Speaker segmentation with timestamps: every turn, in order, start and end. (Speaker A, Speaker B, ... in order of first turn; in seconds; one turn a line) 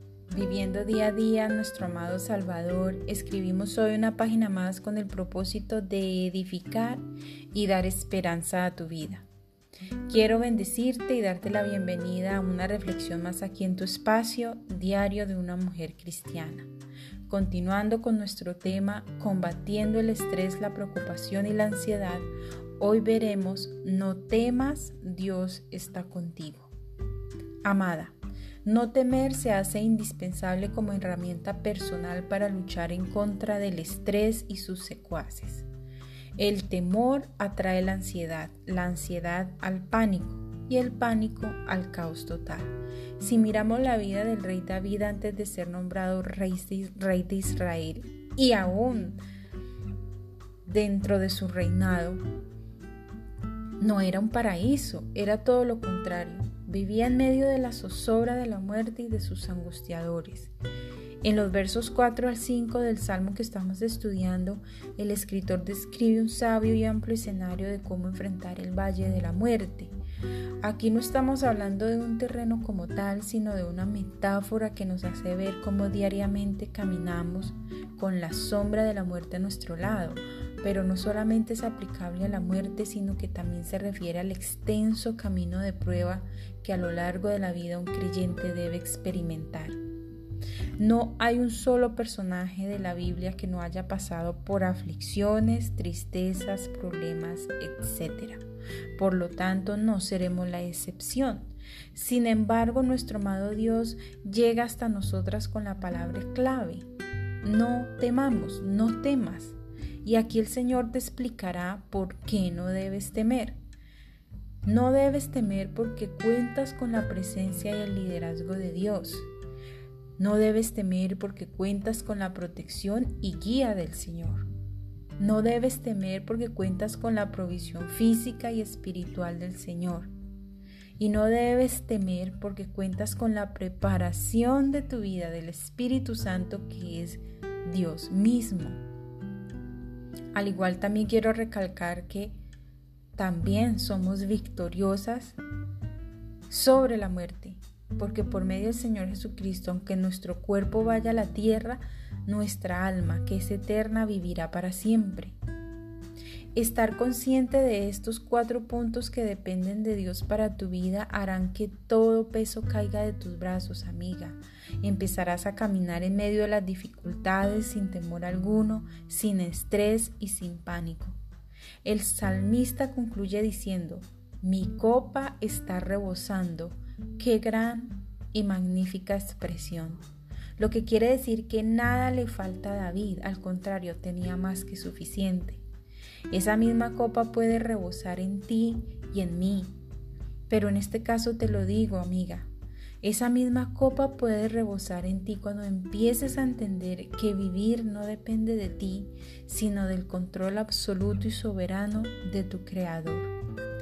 Speaker A: 0.3-9.3
Speaker A: 10.1-16.7
Speaker A: 17.3-26.7
Speaker A: 27.6-35.7
Speaker A: 36.4-49.2
Speaker A: 50.6-52.2
Speaker A: 53.8-60.5
Speaker A: 61.2-69.9
Speaker A: 70.6-89.8
Speaker A: 90.8-98.4
Speaker A: 99.0-106.9
Speaker A: 107.4-113.6
Speaker A: 114.6-119.3
Speaker A: 120.2-124.5
Speaker A: 125.2-130.1
Speaker A: 131.0-138.8
Speaker A: 140.3-142.4
Speaker A: 143.2-145.4
Speaker A: 146.5-155.4
Speaker A: 156.6-171.2
Speaker A: 171.8-180.1
Speaker A: 180.6-185.6
Speaker A: 186.3-189.7
Speaker A: 190.5-192.5
Speaker A: 193.0-203.3